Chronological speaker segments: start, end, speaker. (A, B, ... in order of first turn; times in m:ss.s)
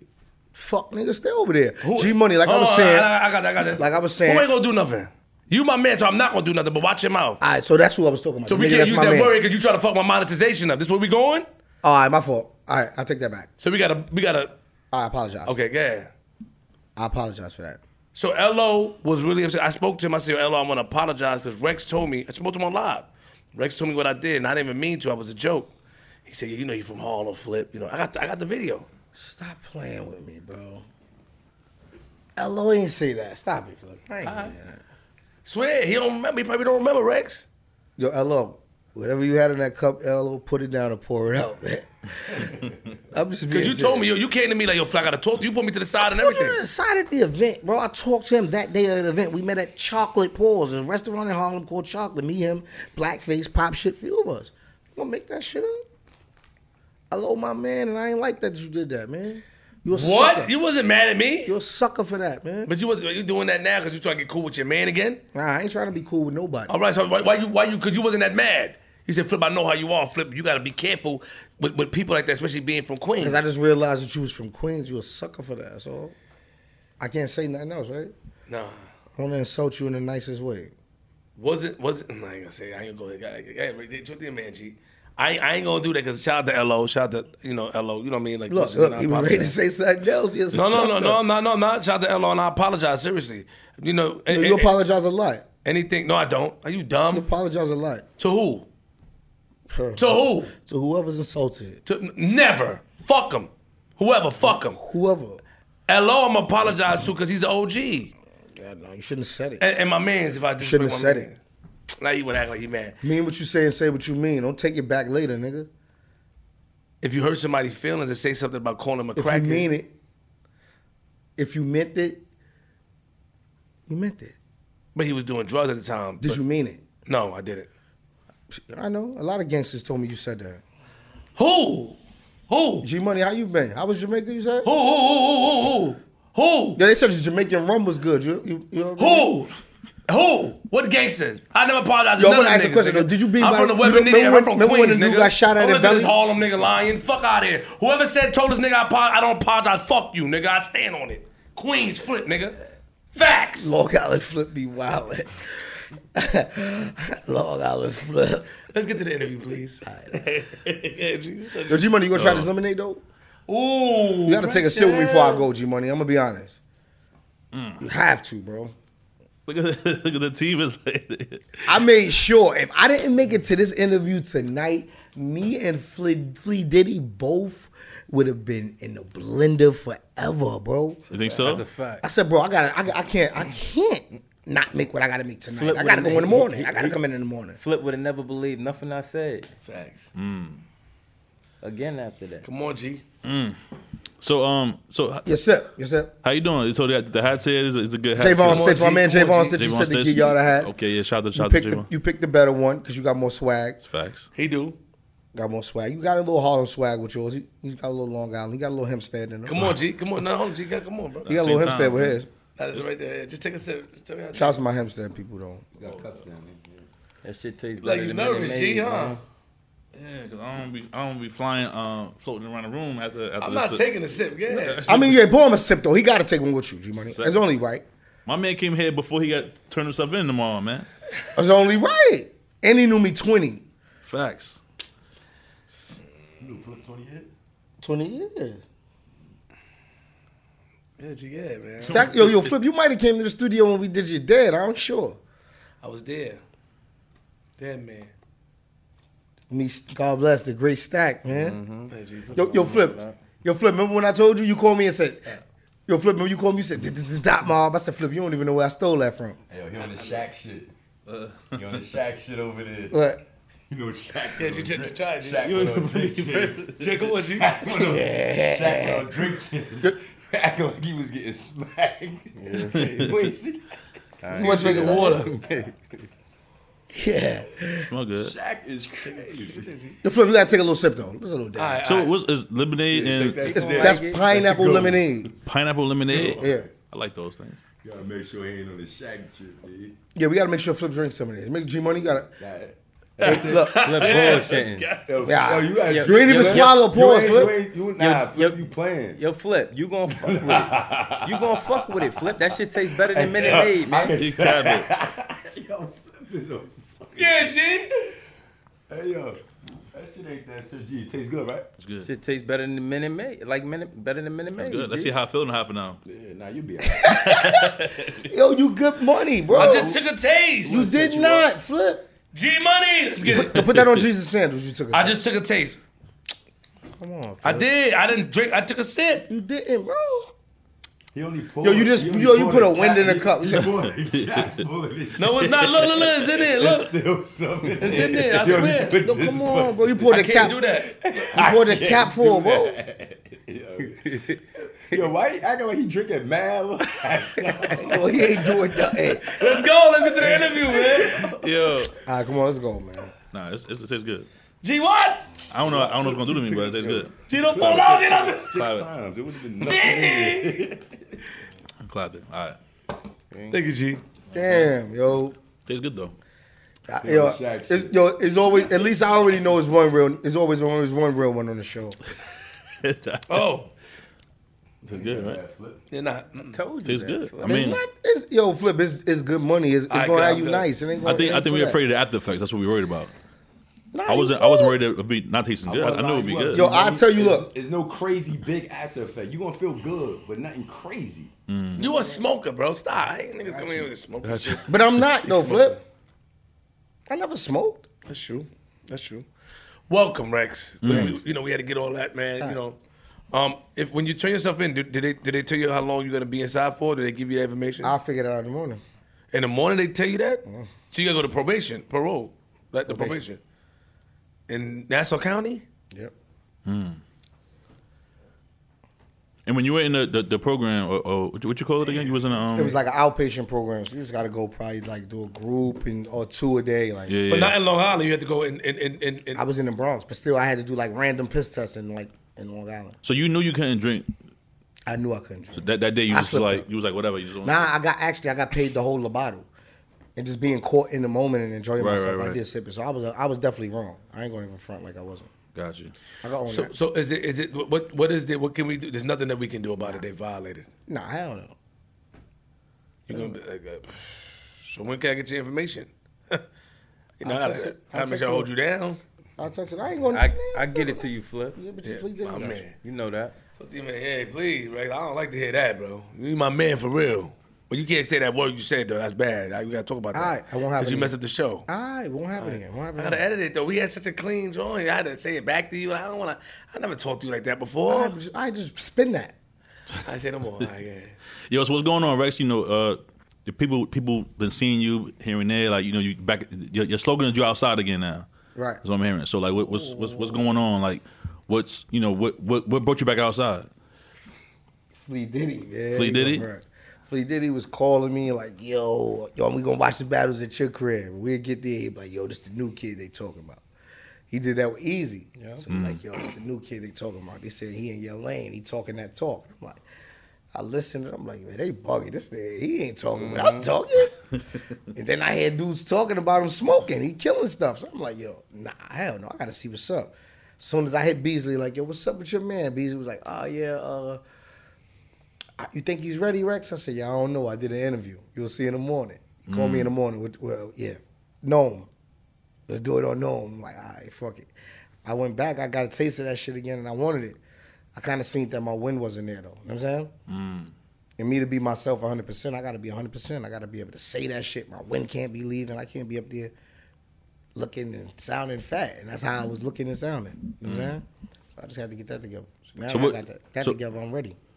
0:00.5-0:03.1 A
0:01.8-0:07.4 B
0:03.8-0:04.5 A
0:07.4-0:09.3 A
0:08.5-0:11.4 B
0:11.8-0:13.5 A
0:13.6-0:14.5 B
0:14.9-0:15.6 A
0:15.4-0:16.1 B
0:17.0-0:17.8 A
0:18.1-0:25.7 B
0:26.2-0:28.9 B
0:29.1-0:30.8 A
0:32.4-0:34.8 A
0:34.2-0:34.5 B
0:35.4-0:37.4 B
0:38.0-0:44.1 A
0:43.5-0:46.6 B
0:46.0-0:55.8 A
0:57.1-1:00.5 A
0:59.9-1:01.5 B
1:01.4-1:02.7 A
1:02.6-1:05.2 B
1:05.3-1:06.7 A
1:06.7-1:13.4 B
1:13.2-1:16.1 A
1:17.0-1:18.1 A
1:18.5-1:18.8 B
1:19.1-1:20.7 A
1:21.4-1:29.6 B
1:28.5-1:31.2 A
1:30.5-1:34.7 B
1:34.3-1:35.4 A
1:35.6-1:37.3 B
1:37.1-1:38.0 A
1:38.2-1:38.7 B
1:39.7-1:41.8 A
1:40.0-1:40.5 B
1:41.8-1:44.8 B
1:44.4-1:45.4 A
1:45.9-1:48.1 B
1:48.6-1:49.6 A
1:49.6-1:51.4 B
1:50.6-1:51.3 A
1:52.0-1:53.0 B
1:53.0-1:55.7 A
1:57.0-1:59.7 B
1:59.2-1:59.9 A
2:01.4-2:02.2 A
2:03.9-2:04.3 A
2:04.9-2:06.4 B
2:06.2-2:06.8 A
2:07.0-2:07.7 B
2:08.5-2:10.6 A
2:11.4-2:12.0 B
2:12.5-2:12.9 B
2:12.8-2:14.7 A
2:14.6-2:16.8 B
2:16.8-2:19.3 A
2:19.0-2:19.5 B
2:20.1-2:32.6 B
2:22.2-2:26.1 A
2:33.1-2:33.7 B
2:33.6-2:38.6 A
2:38.7-2:41.9 B
2:39.8-2:40.2 A
2:41.7-2:43.0 A
2:42.1-2:42.5 C
2:43.5-2:45.5 B
2:44.2-2:46.6 A
2:47.5-2:47.8 C
2:47.8-2:48.7 A
2:49.4-2:51.8 C
2:51.6-3:01.0 A
3:01.1-3:02.0 D
3:01.1-3:01.6 C
3:02.0-3:07.6 A
3:05.5-3:07.0 D
3:07.6-3:09.5 D
3:09.6-3:10.1 B
3:10.1-3:10.6 C
3:11.6-3:12.5 D
3:12.4-3:13.0 B
3:13.2-3:13.6 C
3:14.2-3:15.3 C
3:15.2-3:16.1 A
3:16.2-3:18.9 C
3:18.2-3:20.7 A
3:18.4-3:19.6 B
3:19.5-3:21.9 C
3:21.3-3:23.8 A
3:23.8-3:24.3 C
3:24.3-3:24.8 B
3:25.3-3:29.6 A
3:29.4-3:31.3 B
3:31.3-3:32.3 A
3:31.3-3:32.2 C
3:32.6-3:34.6 B
3:34.3-3:35.6 A
3:35.8-3:36.9 E
3:37.2-3:39.2 D
3:37.8-3:39.2 B
3:39.9-3:43.9 C
3:43.4-3:44.9 B
3:44.5-3:45.2 C
3:44.8-3:47.8 A
3:47.0-3:47.4 C
3:48.2-3:50.9 C
3:51.3-3:53.6 A
3:54.0-3:54.6 C
3:56.4-3:57.3 E
3:57.8-3:58.6 A
4:01.0-4:02.5 B
4:01.8-4:05.2 A
4:05.8-4:06.4 B
4:07.6-4:08.1 B
4:09.5-4:11.6 A
4:11.3-4:13.2 D
4:11.9-4:12.7 B
4:12.3-4:19.4 A
4:19.5-4:20.7 E
4:21.1-4:21.6 C
4:21.5-4:23.0 E
4:22.9-4:23.2 A
4:23.7-4:33.6 E
4:24.4-4:25.5 B
4:25.4-4:26.9 C
4:26.7-4:27.6 B
4:27.6-4:29.2 A
4:32.4-4:33.2 D
4:32.8-4:33.1 C
4:34.2-4:35.8 D
4:34.3-4:35.2 A
4:34.4-4:35.0 E
4:34.4-4:35.4 B
4:36.9-4:37.9 A
4:37.9-4:38.3 C
4:38.1-4:39.8 E
4:39.0-4:40.0 B
4:40.0-4:41.8 A
4:41.6-4:42.1 B
4:41.8-4:43.6 C
4:42.9-4:45.1 E
4:43.4-4:44.2 D
4:43.5-4:45.3 A
4:45.4-4:47.6 C
4:46.1-4:46.6 E
4:46.1-4:46.7 A
4:47.8-4:50.0 E
4:50.1-4:52.3 A
4:52.4-4:53.8 E
4:53.2-4:53.8 A
4:53.3-4:54.5 B
4:53.8-4:55.1 C
4:53.8-4:55.0 D
4:55.0-4:59.2 E
4:55.2-4:57.6 A
4:55.8-4:56.7 D
4:58.0-5:04.2 D
5:00.1-5:07.5 E
5:04.1-5:04.9 C
5:07.1-5:07.9 B
5:08.9-5:09.4 E
5:09.9-5:11.7 E
5:11.8-5:12.1 C
5:12.0-5:15.1 D
5:14.6-5:16.0 C
5:16.0-5:17.2 E
5:16.8-5:19.9 A
5:17.1-5:18.2 C
5:19.5-5:20.0 E
5:19.5-5:20.9 B
5:20.6-5:21.5 E
5:20.7-5:22.1 A
5:22.3-5:23.7 B
5:23.2-5:25.2 A
5:23.6-5:24.0 C
5:24.9-5:25.8 B
5:27.0-5:27.7 A
5:27.4-5:29.3 B
5:29.3-5:30.3 A
5:31.1-5:51.7 E
5:31.6-5:33.7 A
5:34.1-5:34.6 C
5:35.2-5:36.9 B
5:37.8-5:39.0 B
5:38.9-5:40.6 A
5:40.1-5:40.9 B
5:41.3-5:42.8 A
5:44.0-5:44.4 D
5:47.8-5:49.4 A
5:49.4-5:51.3 B
5:51.4-5:51.9 C
5:52.0-5:53.1 A
5:53.3-5:54.3 C
5:54.6-5:55.4 B
5:55.5-5:57.8 C
5:55.6-6:01.2 E
5:57.3-5:58.5 B
5:58.5-5:58.9 C
5:59.6-6:00.7 B
6:01.8-6:02.6 C
6:03.3-6:03.6 D
6:03.5-6:04.0 B
6:04.3-6:05.4 A
6:04.4-6:04.7 C
6:05.6-6:06.1 C
6:06.9-6:12.0 A
6:07.0-6:08.0 E
6:12.7-6:13.4 C
6:13.3-6:13.7 B
6:14.8-6:15.4 C
6:14.9-6:15.8 E
6:15.9-6:16.6 B
6:16.4-6:17.8 D
6:16.8-6:17.8 C
6:17.4-6:21.8 A
6:19.9-6:20.7 B
6:21.0-6:23.1 C
6:23.9-6:24.8 A
6:24.1-6:26.7 C
6:25.6-6:31.3 E
6:26.5-6:27.5 A
6:31.5-6:31.8 C
6:31.8-6:35.8 B
6:33.4-6:33.9 A
6:34.2-6:34.6 C
6:34.7-6:35.8 A
6:37.1-6:37.8 A
6:38.1-6:39.2 B
6:39.9-6:42.8 B
6:40.8-6:41.2 C
6:40.9-6:41.2 A
6:43.3-6:48.0 B
6:47.8-6:48.8 A
6:49.3-6:53.4 B
6:50.4-6:50.7 A
6:52.9-6:53.2 A
6:54.5-6:55.6 B
6:56.6-6:57.0 C
6:59.4-7:02.8 C
7:02.5-7:07.2 A
7:07.1-7:07.6 C
7:07.3-7:09.4 B
7:09.3-7:13.0 A
7:13.0-7:14.1 C
7:14.9-7:16.7 A
7:15.6-7:17.7 C
7:17.4-7:19.5 A
7:20.2-7:25.3 A
7:21.8-7:22.4 C
7:25.5-7:25.9 C
7:26.2-7:26.7 A
7:26.4-7:30.7 B
7:30.9-7:31.5 A
7:33.1-7:36.4 B
7:33.1-7:33.4 A
7:37.2-7:39.0 B
7:37.2-7:38.5 A
7:39.4-7:42.6 A
7:40.1-7:41.6 D
7:41.8-7:42.8 B
7:42.8-7:43.4 D
7:43.6-7:51.7 B
7:50.1-7:51.1 A
7:51.7-7:53.2 A
7:52.4-7:58.1 B
7:57.9-7:59.3 A
8:00.0-8:01.2 B
8:01.5-8:08.3 C
8:08.5-8:08.8 A
8:08.8-8:13.7 C
8:09.6-8:10.4 A
8:15.0-8:23.6 A
8:15.9-8:16.4 C
8:24.3-8:29.8 A
8:25.7-8:26.0 C
8:30.5-8:34.2 A
8:33.1-8:33.7 D
8:34.9-8:44.2 A
8:45.6-8:51.9 A
8:49.5-8:49.9 C
8:52.7-8:54.5 A
8:55.0-8:57.4 A
8:58.0-9:00.1 A
9:00.3-9:00.7 C
9:01.2-9:06.5 A
9:07.5-9:14.4 A
9:10.6-9:11.0 C
9:12.9-9:13.8 C